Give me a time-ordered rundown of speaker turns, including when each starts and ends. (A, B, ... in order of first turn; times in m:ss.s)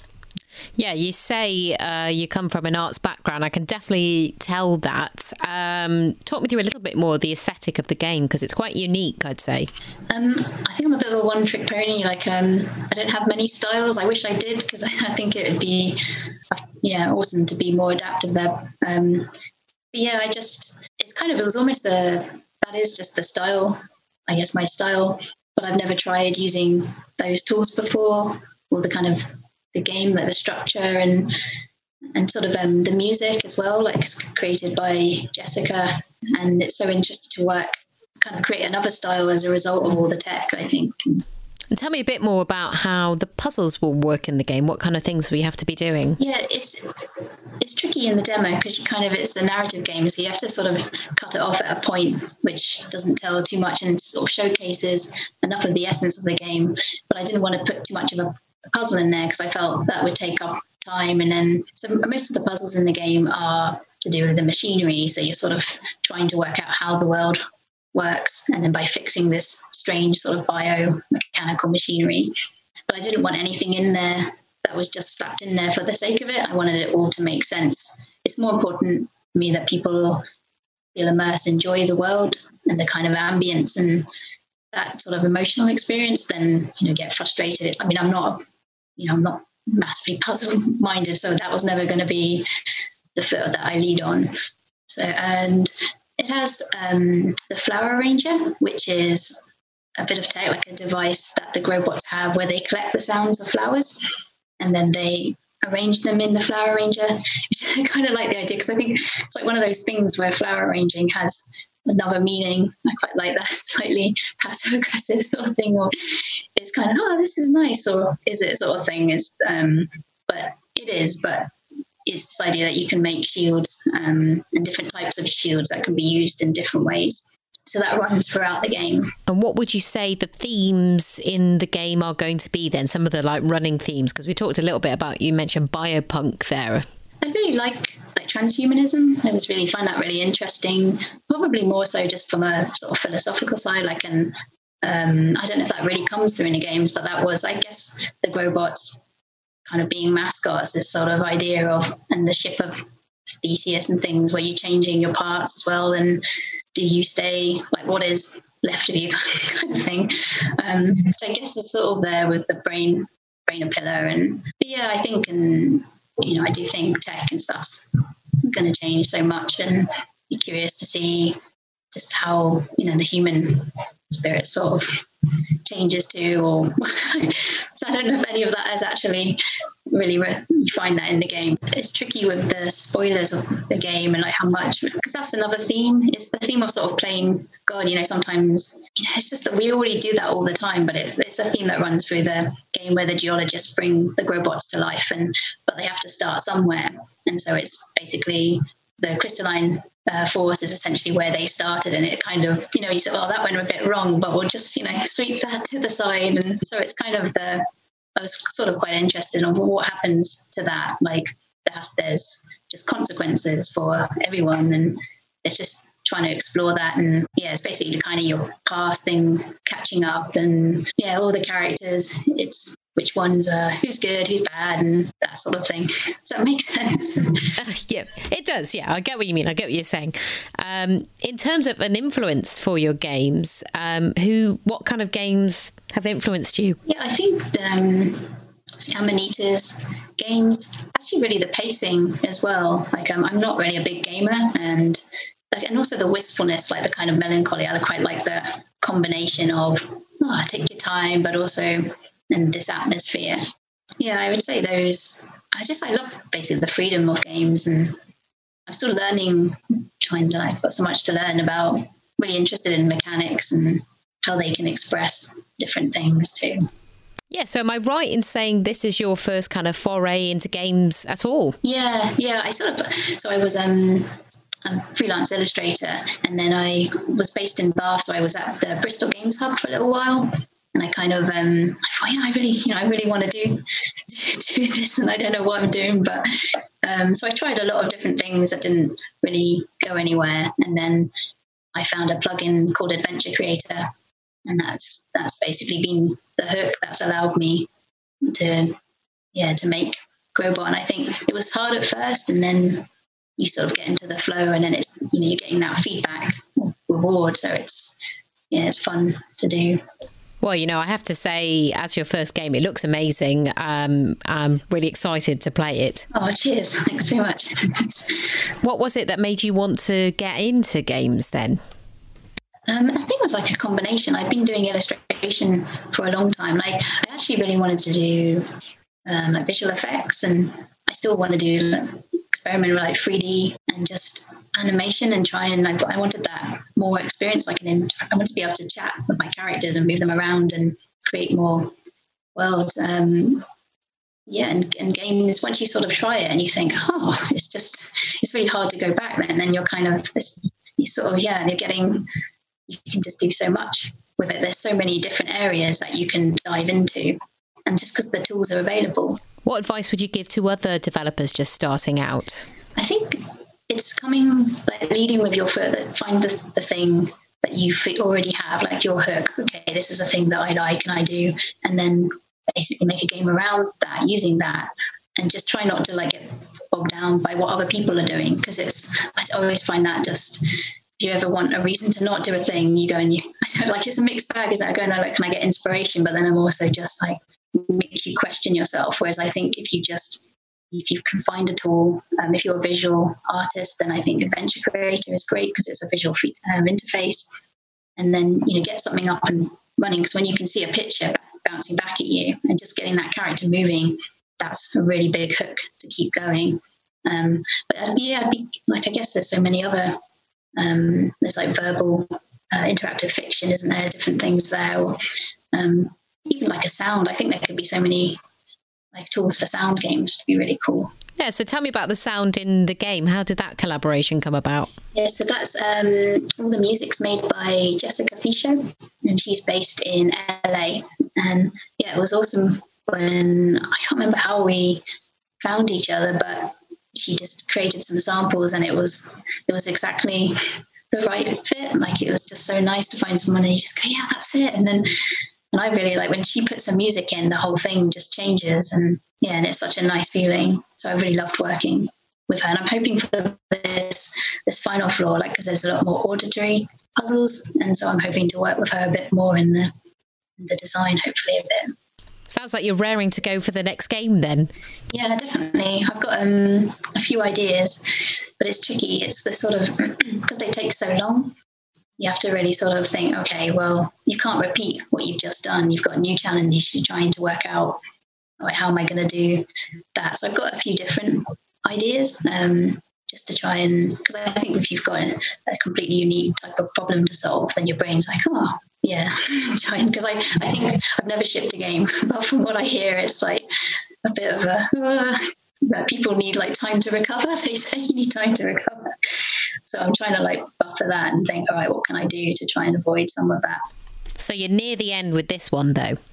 0:00.8-0:09.7 A
0:10.1-0:16.0 B
0:16.5-0:19.3 B
0:19.9-0:31.4 B
0:32.2-0:41.2 B
0:41.7-0:46.2 A
0:46.2-0:47.1 B
0:47.6-1:07.4 B
1:07.9-1:12.3 B
1:12.9-1:20.2 B
1:21.0-1:24.1 B
1:24.7-1:28.4 B
1:29.0-1:32.5 B
1:33.2-1:34.4 B
1:34.9-1:39.4 B
1:40.0-1:44.0 B
1:44.6-2:01.5 B
2:02.1-2:09.1 B
2:09.3-2:16.8 A
2:17.2-2:29.0 B
2:29.7-2:36.2 B
2:36.8-2:47.9 B
2:48.4-2:51.4 B
2:51.9-2:55.0 B
2:55.6-3:27.6 B
3:28.2-3:47.5 B
3:47.6-3:56.8 A
3:56.8-4:13.4 B
4:14.0-4:18.0 B
4:18.7-4:26.6 B
4:27.3-4:31.6 A
4:31.6-4:34.1 B
4:34.6-4:51.1 B
4:51.7-4:53.9 B
4:54.5-4:57.7 B
4:58.3-4:58.8 B
4:59.3-5:08.0 B
5:08.5-5:09.8 B
5:10.4-5:16.1 A
5:16.1-5:18.4 B
5:18.6-5:21.6 A
5:22.7-5:28.4 B
5:29.1-5:41.7 B
5:42.4-5:43.4 B
5:44.3-5:52.1 B
5:52.7-5:59.2 B
5:59.4-6:02.4 A
6:02.8-6:20.4 B
6:21.0-6:37.3 B
6:38.0-6:50.0 B
6:50.6-6:55.0 B
6:55.5-6:58.2 B
6:58.9-7:00.9 B
7:01.2-7:04.7 A
7:04.9-7:14.8 B
7:15.4-7:24.9 B
7:25.5-7:39.7 B
7:40.4-7:41.8 B
7:42.3-7:44.5 A
7:44.9-7:47.8 B
7:48.4-7:51.3 B
7:52.0-7:57.8 B
7:58.4-8:13.5 B
8:14.0-8:19.1 B
8:19.7-8:23.6 B
8:24.2-8:26.0 A